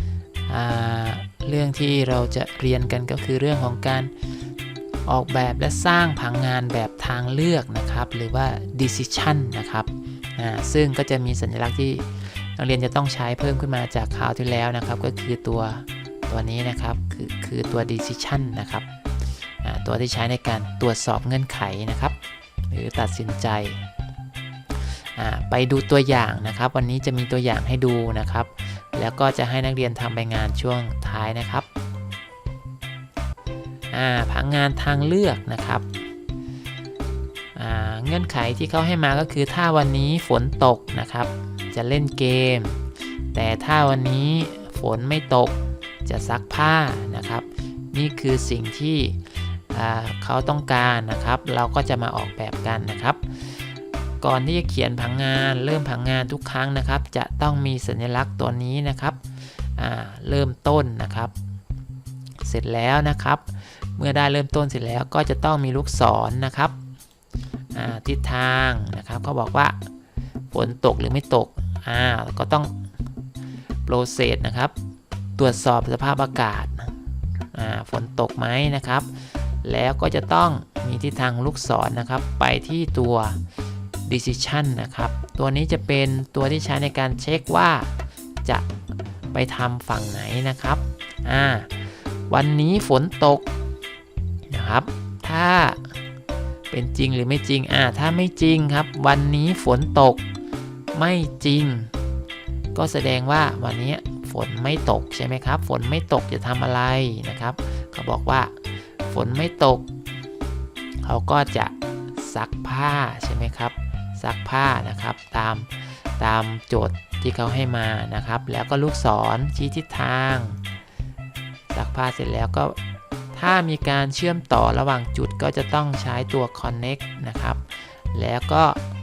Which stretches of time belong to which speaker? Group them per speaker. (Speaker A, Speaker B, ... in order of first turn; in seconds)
Speaker A: 0.5-4.1, 5.0-18.9, 19.6-22.2, 22.7-23.9, 24.8-31.7, 33.9-35.9, 37.5-42.8, 43.3-59.2, 59.8-61.3, 62.4-66.8, 67.7-69.8, 70.5-72.8, 73.8-74.7, 75.4-77.0, 77.5-83.4, 84.0-87.9, 89.3-93.5, 94.5-96.0, 96.7-100.2, 100.9-101.9, 102.7-108.5, 109.1-109.9, 111.0-120.6, 121.7-122.8, 123.3-128.8